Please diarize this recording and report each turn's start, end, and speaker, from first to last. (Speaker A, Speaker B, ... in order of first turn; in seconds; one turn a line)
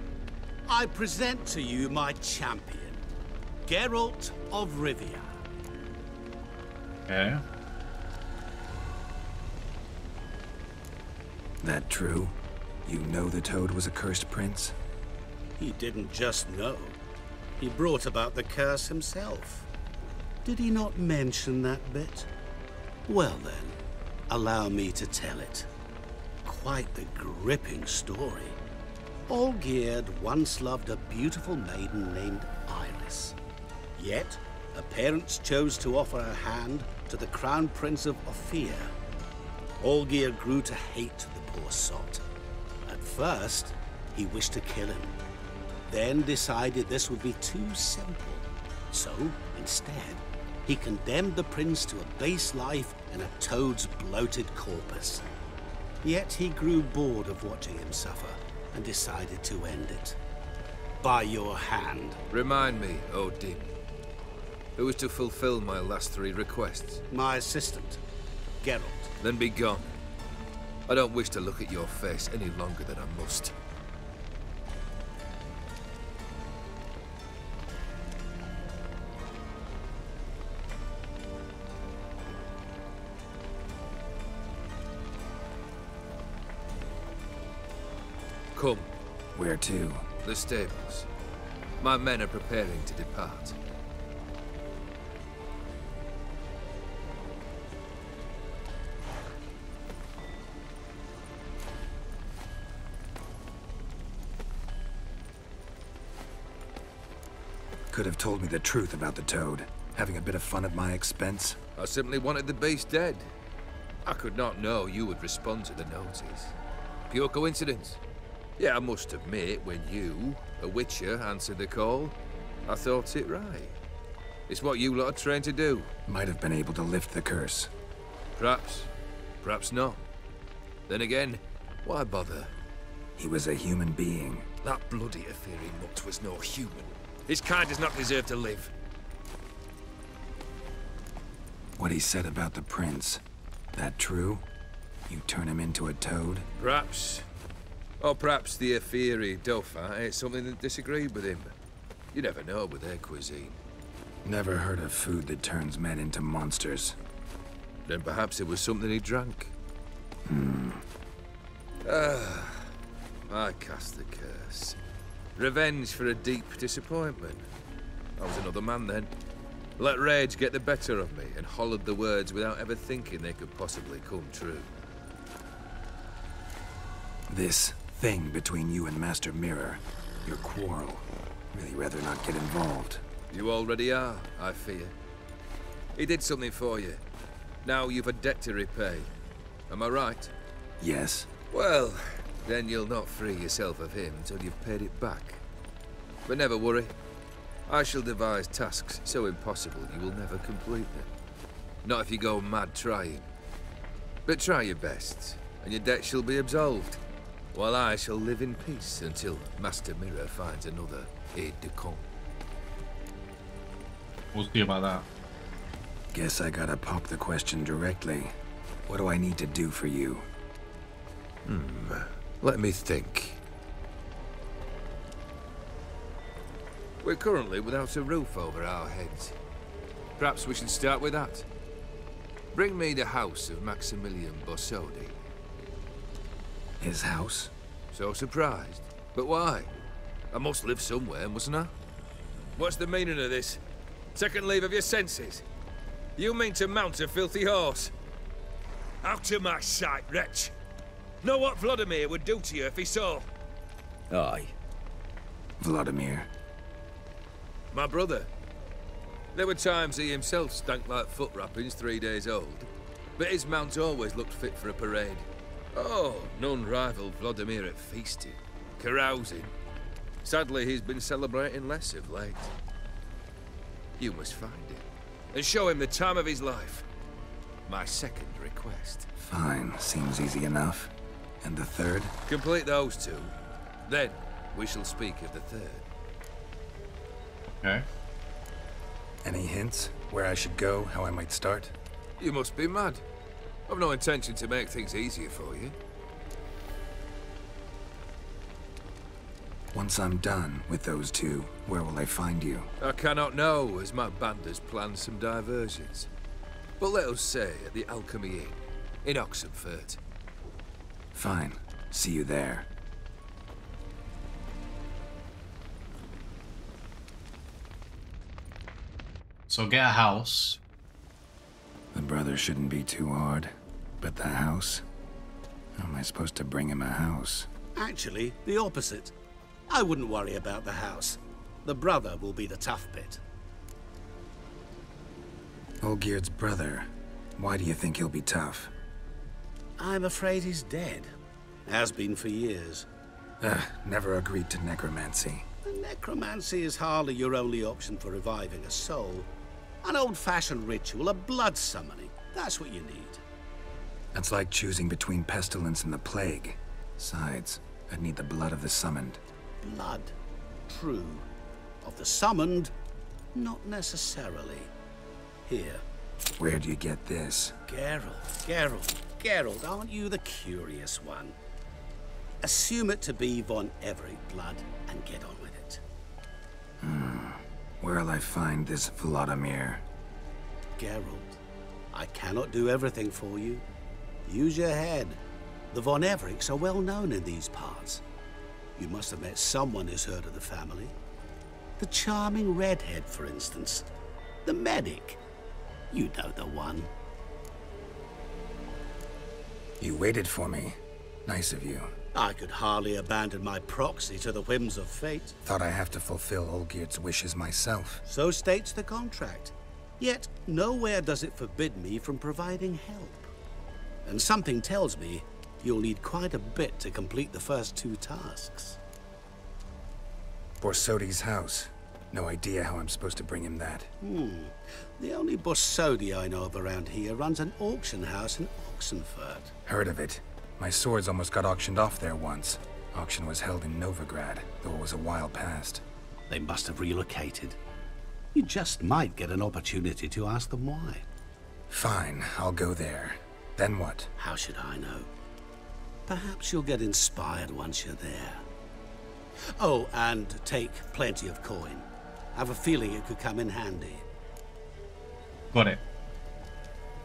Speaker A: 0.7-3.0
Speaker A: 3.6-5.3
Speaker B: 7.1-7.4
Speaker C: 11.6-14.7
Speaker A: 15.6-17.0
Speaker A: 17.6-19.7
Speaker A: 20.4-22.3
Speaker A: 23.1-23.8
Speaker A: 24.3-25.7
Speaker A: 26.4-28.6
Speaker A: 29.3-33.4
Speaker A: 34.0-38.9
Speaker A: 39.8-42.2
Speaker A: 42.9-45.1
Speaker A: 45.9-55.2
Speaker A: 56.0-60.2
Speaker A: 61.0-62.2
Speaker D: 62.3-63.7
Speaker D: 64.8-67.0
Speaker A: 67.1-68.0
Speaker A: 68.6-69.1
Speaker D: 69.2-69.9
Speaker D: 70.9-73.5
Speaker D: 88.5-88.9
Speaker C: 89.3-90.1
Speaker D: 90.2-91.1
Speaker D: 91.8-93.5
Speaker C: 107.9-111.6
Speaker D: 111.8-113.3
Speaker D: 114.0-116.5
Speaker D: 117.1-118.0
Speaker D: 118.6-123.7
Speaker D: 124.5-125.9
Speaker C: 126.0-127.7
Speaker D: 128.4-128.9
Speaker D: 129.4-130.0
Speaker D: 130.9-132.5
Speaker C: 133.2-134.5
Speaker D: 134.6-138.7
Speaker C: 141.8-143.2
Speaker C: 143.7-144.4
Speaker C: 145.1-146.5
Speaker D: 146.6-147.2
Speaker D: 148.0-151.5
Speaker D: 152.1-153.6
Speaker C: 154.2-157.0
Speaker D: 157.8-159.5
Speaker C: 160.2-160.8
Speaker D: 161.8-162.7
Speaker D: 163.3-164.8
Speaker D: 165.3-167.5
Speaker D: 168.2-169.1
Speaker D: 169.8-174.7
Speaker C: 177.3-183.0
Speaker D: 183.3-184.9
Speaker D: 185.9-187.0
Speaker D: 187.6-189.1
Speaker D: 189.7-190.3
Speaker C: 190.8-191.3
Speaker D: 191.5-195.4
Speaker D: 196.2-196.9
Speaker D: 197.7-201.1
Speaker D: 201.8-203.3
Speaker D: 204.2-207.0
Speaker D: 207.5-212.0
Speaker B: 214.3-215.0
Speaker C: 216.1-218.3
Speaker C: 218.9-220.3
Speaker D: 221.4-223.4
Speaker D: 227.0-229.3
Speaker D: 230.2-231.4
Speaker D: 232.5-235.2
Speaker C: 236.8-237.5
Speaker D: 237.9-239.7
Speaker D: 240.3-241.7
Speaker D: 242.6-243.6
Speaker D: 244.1-245.4
Speaker D: 246.2-247.9
Speaker D: 249.0-250.5
Speaker D: 251.2-253.3
Speaker C: 255.6-256.3
Speaker D: 257.7-258.3
Speaker D: 259.3-269.5
Speaker D: 270.2-272.5
Speaker D: 274.0-276.9
Speaker D: 277.7-279.1
Speaker C: 279.2-282.1
Speaker D: 282.3-283.3
Speaker D: 283.8-285.8
Speaker C: 289.2-291.7
Speaker D: 292.2-293.0
Speaker D: 293.7-295.8
Speaker C: 299.7-302.7
Speaker D: 302.8-306.1
Speaker D: 306.8-310.0
Speaker C: 311.1-312.7
Speaker B: 319.5-320.6
Speaker C: 321.9-324.8
Speaker C: 325.7-327.5
Speaker A: 327.8-329.1
Speaker A: 329.7-333.2
Speaker C: 335.8-338.7
Speaker A: 339.8-341.1
Speaker A: 341.6-342.9
Speaker C: 343.4-345.4
Speaker A: 345.6-349.3
Speaker A: 349.8-353.2
Speaker C: 354.1-359.2
Speaker A: 359.6-360.1
Speaker A: 360.7-361.2
Speaker A: 361.8-362.7
Speaker A: 363.3-364.7
Speaker A: 365.5-365.8
Speaker C: 366.4-367.5
Speaker A: 367.7-371.4
Speaker A: 372.4-375.8
Speaker C: 376.8-379.8
Speaker A: 380.8-381.4
Speaker A: 381.9-383.6
Speaker A: 384.2-385.2
Speaker A: 385.7-388.0
Speaker A: 388.8-390.9
Speaker A: 391.8-393.9
Speaker A: 394.4-395.2
Speaker A: 395.9-396.9
Speaker C: 399.8-401.9
Speaker A: 402.1-405.4
Speaker C: 405.4-408.0
Speaker A: 408.1-413.3
Speaker A: 414.1-418.8
Speaker C: 420.6-423.9
Speaker A: 424.0-429.5
Speaker C: 429.6-435.8
Speaker A: 436.3-437.6
Speaker A: 438.3-441.0
Speaker C: 441.7-444.1
Speaker A: 444.2-445.1
Speaker A: 446.1-448.4
Speaker A: 449.6-454.0
Speaker B: 455.5-455.8